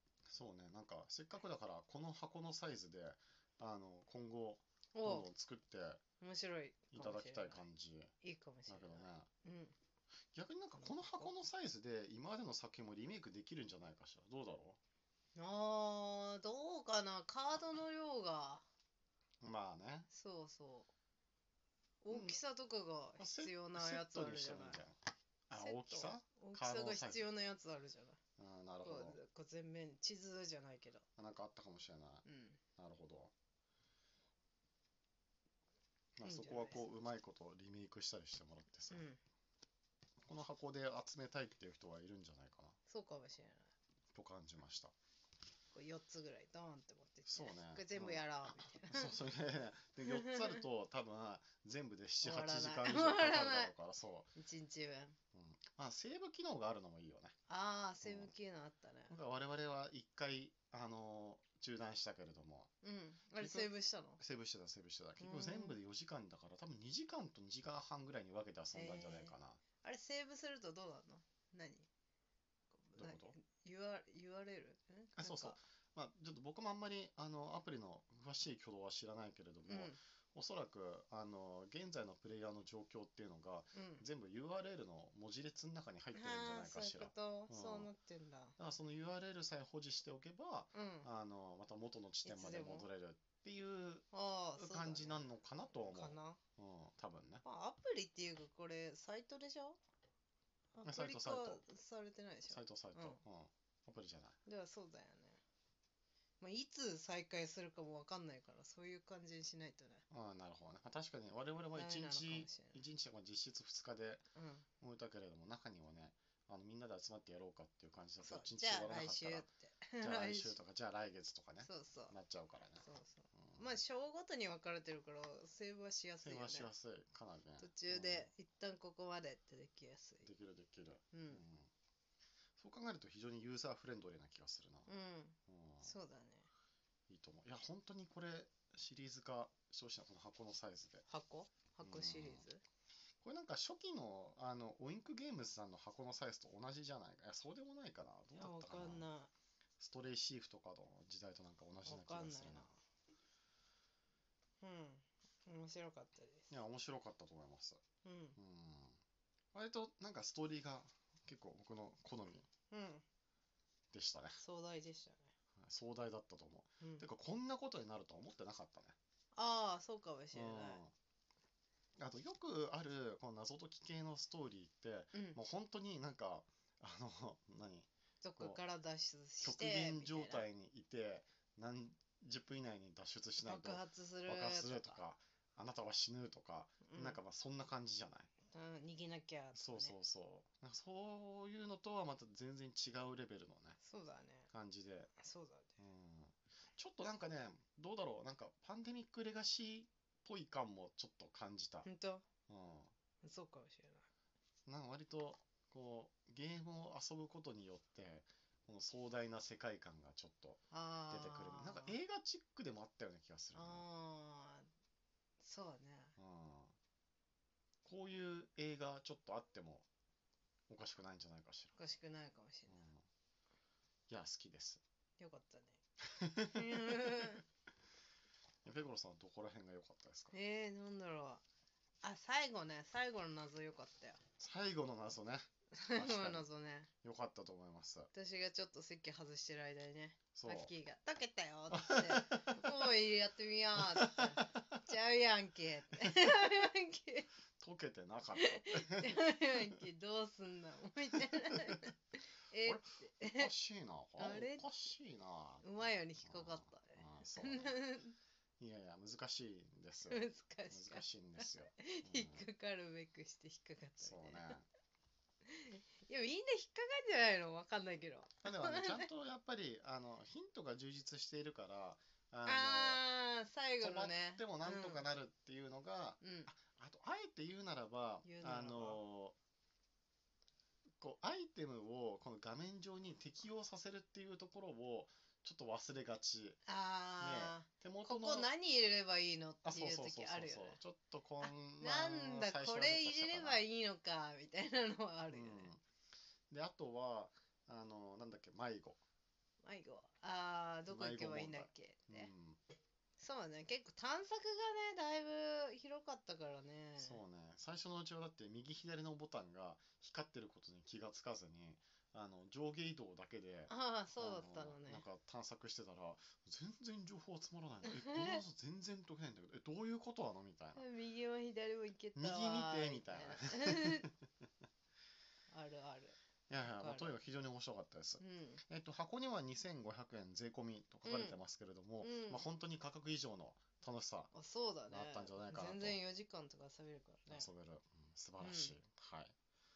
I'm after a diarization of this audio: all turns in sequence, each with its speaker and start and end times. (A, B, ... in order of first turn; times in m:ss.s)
0:00.3-0:06.0 A
0:04.9-0:05.3 B
0:06.2-0:07.6 B
0:06.9-0:08.1 A
0:08.2-0:09.8 B
0:08.7-0:09.3 A
0:10.3-0:14.8 A
0:10.8-0:11.3 B
0:15.3-0:18.6 B
0:19.4-0:20.1 A
0:20.1-0:20.9 B
0:22.0-0:24.8 B
0:22.1-0:22.4 A
0:23.2-0:27.3 A
0:25.5-0:28.2 B
0:28.4-0:29.2 A
0:28.8-0:31.0 B
0:31.2-0:32.2 A
0:32.2-0:32.6 B
0:32.8-0:33.3 A
0:36.2-0:39.0 A
0:36.2-0:36.9 B
0:38.9-0:39.2 B
0:40.2-0:42.8 A
0:42.9-0:43.7 B
0:44.1-0:44.9 A
0:45.7-0:49.2 B
0:47.3-0:54.3 A
0:50.0-0:50.6 B
0:52.2-0:53.7 B
0:54.4-0:55.2 B
0:55.3-0:57.4 A
0:57.5-0:59.1 B
0:58.0-0:58.3 A
0:59.1-1:02.7 A
1:02.8-1:04.2 B
1:03.3-1:09.6 A
1:05.2-1:05.8 B
1:08.7-1:11.9 B
1:12.7-1:15.6 B
1:13.0-1:13.4 A
1:15.1-1:27.9 A
1:19.7-1:20.0 B
1:23.7-1:24.0 B
1:26.1-1:28.6 B
1:28.6-1:37.4 A
1:30.7-1:31.1 B
1:32.2-1:32.9 B
1:34.1-1:36.4 B
1:37.4-1:39.8 B
1:40.7-1:43.2 B
1:40.8-1:41.6 A
1:42.5-1:44.4 A
1:44.4-1:45.4 B
1:46.4-1:50.0 B
1:50.1-1:54.2 A
1:51.7-1:52.8 B
1:54.3-1:54.6 B
1:54.8-1:59.5 A
1:58.2-2:00.6 B
2:00.0-2:03.8 A
2:01.6-2:02.1 B
2:02.8-2:06.7 B
2:06.2-2:08.3 A
2:07.6-2:10.3 B
2:10.2-2:11.7 A
2:11.1-2:11.4 B
2:12.6-2:14.9 A
2:14.9-2:16.5 B
2:15.5-2:15.9 A
2:17.1-2:21.0 A
2:21.1-2:22.6 B
2:21.8-2:22.5 A
2:23.2-2:29.1 A
2:28.3-2:29.3 B
2:29.8-2:32.7 A
2:31.8-2:32.8 B
2:34.6-2:36.5 B
2:36.5-2:37.8 A
2:38.0-2:38.4 B
2:38.4-2:39.0 A
2:39.5-2:42.5 A
2:42.7-2:43.0 B
2:43.9-2:44.4 A
2:44.4-2:45.3 B
2:45.6-2:49.0 A
2:46.8-2:47.0 B
2:49.3-2:50.8 B
2:50.3-2:50.9 A
2:52.0-2:58.6 A
2:55.1-2:55.4 B
2:58.2-3:00.4 B
2:59.4-3:08.3 A
3:03.4-3:05.0 B
3:06.8-3:07.2 B
3:08.5-3:09.9 B
3:09.5-3:13.8 A
3:13.8-3:14.5 B
3:14.5-3:15.1 A
3:15.2-3:15.8 B
3:15.8-3:21.9 A
3:21.8-3:22.2 B
3:22.5-3:22.9 A
3:23.2-3:24.1 B
3:24.7-3:33.8 A
3:30.7-3:31.9 B
3:33.5-3:34.7 B
3:35.4-3:36.2 B
3:36.2-3:36.7 A
3:37.8-3:39.9 A
3:40.7-3:41.7 A
3:41.8-3:42.8 B
3:42.7-3:43.0 A
3:44.1-3:44.8 A
3:45.2-3:45.8 B
3:46.1-3:47.4 A
3:46.5-3:47.4 B
3:48.6-3:50.3 A
3:50.3-3:51.4 B
3:52.0-3:54.2 B
3:54.4-3:56.5 A
3:55.7-3:56.9 B
3:57.0-3:58.1 A
3:58.1-4:07.3 B
4:00.3-4:00.7 A
4:01.7-4:02.9 A
4:03.8-4:04.8 A
4:07.6-4:09.8 A
4:08.4-4:12.0 B
4:11.2-4:11.7 A
4:12.5-4:13.5 B
4:12.6-4:17.8 A
4:14.2-4:14.9 B
4:15.6-4:18.2 B
4:18.6-4:22.4 A
4:20.1-4:24.6 B
4:24.0-4:24.6 A
4:25.4-4:29.1 B
4:28.4-4:33.0 A
4:32.4-4:35.0 B
4:33.8-4:39.4 A
4:36.2-4:36.5 B
4:38.2-4:39.0 B
4:41.0-4:46.6 A
4:46.6-4:50.8 B
4:47.2-4:48.5 A
4:49.6-4:53.6 A
4:51.4-4:55.7 B
4:55.3-4:55.8 A
4:56.5-4:59.0 A
4:59.6-5:02.3 B
5:00.9-5:02.6 A
5:03.2-5:07.2 B
5:07.0-5:20.8 A
5:13.7-5:15.0 B
5:17.8-5:18.4 B
5:20.7-5:24.1 B
5:22.2-5:24.1 A
5:25.5-5:27.2 B
5:26.5-5:34.3 A
5:28.2-5:28.6 B
5:31.0-5:31.4 B
5:32.0-5:32.4 B
5:34.3-5:37.5 B
5:34.9-5:36.0 A
5:37.3-5:39.3 A
5:38.4-5:38.8 B